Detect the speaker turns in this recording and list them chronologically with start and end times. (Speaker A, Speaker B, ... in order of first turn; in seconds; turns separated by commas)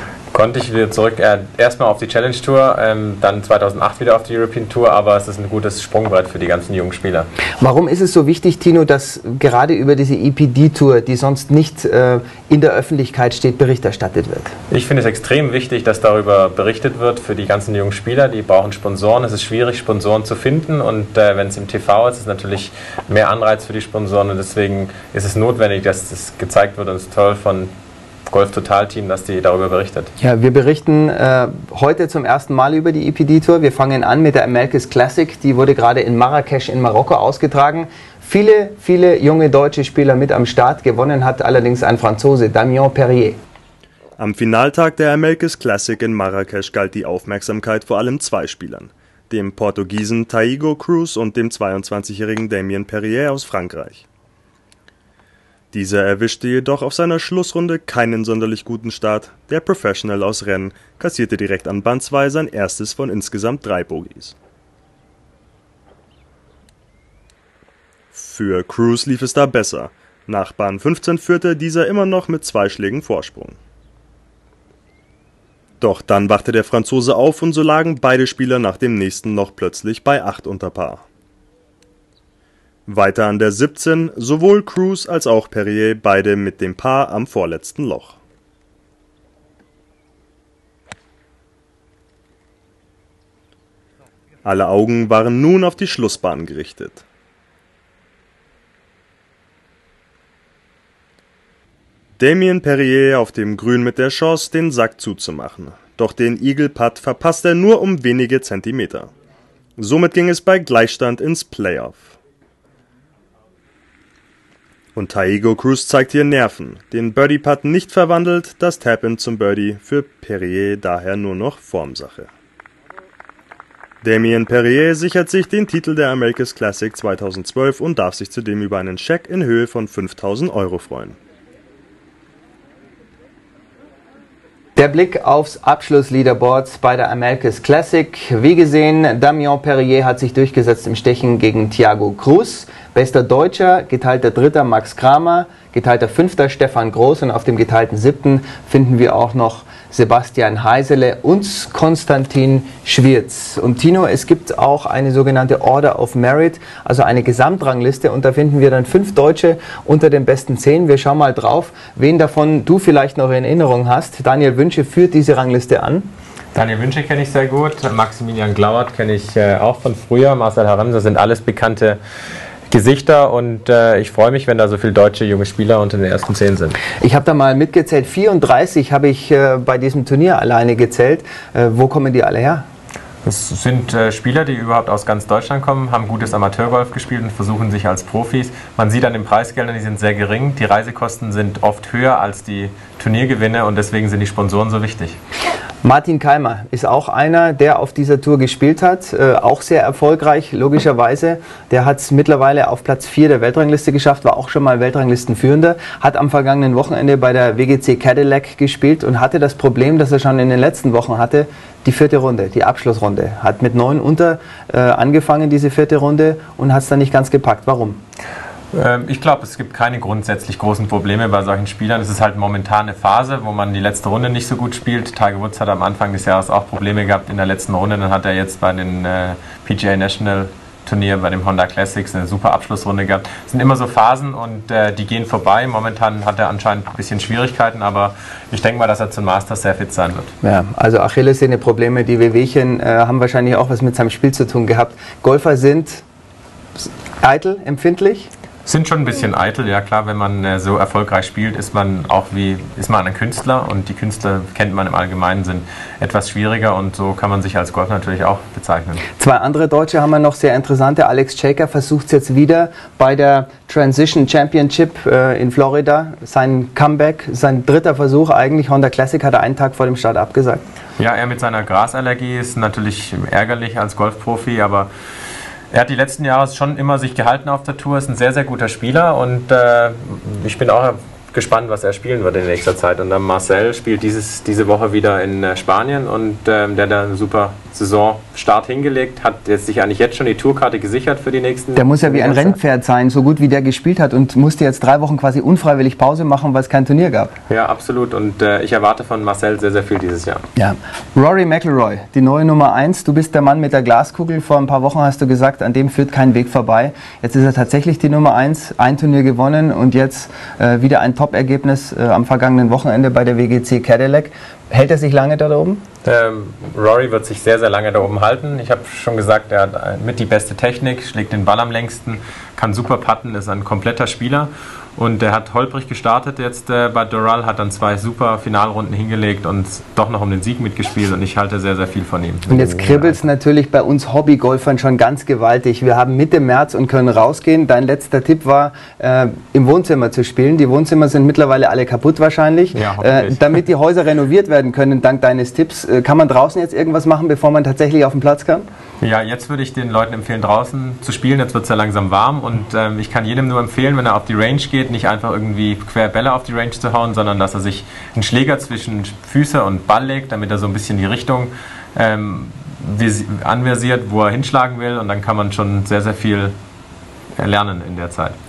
Speaker A: 0.3-7.3, Speaker B: 7.6-14.5, Speaker A: 14.7-27.7, Speaker A: 28.3-30.1, Speaker B: 30.2-43.4, Speaker C: 44.2-54.0, Speaker C: 55.7-64.3, Speaker C: 68.1-73.6, Speaker C: 75.8-81.0, Speaker C: 82.9-88.2, Speaker C: 94.4-97.0, Speaker C: 102.2-109.1, Speaker C: 109.8-112.2, Speaker C: 115.0-122.3, Speaker C: 124.0-131.2, Speaker B: 134.8-166.1, Speaker A: 166.5-172.0, Speaker A: 172.7-176.8, Speaker B: 177.0-182.6, Speaker A: 183.2-195.2, Speaker B: 195.8-218.0, Speaker A: 218.7-240.3, Speaker B: 240.4-246.0, Speaker B: 247.2-248.3, Speaker A: 248.7-259.0, Speaker B: 259.2-270.6, Speaker A: 271.0-274.9, Speaker A: 275.7-292.6, Speaker B: 291.7-297.3, Speaker A: 297.5-300.4, Speaker B: 300.6-315.8, Speaker A: 316.0-333.2, Speaker B: 332.5-348.6, Speaker A: 342.7-343.4, Speaker A: 349.0-366.5, Speaker A: 367.4-368.3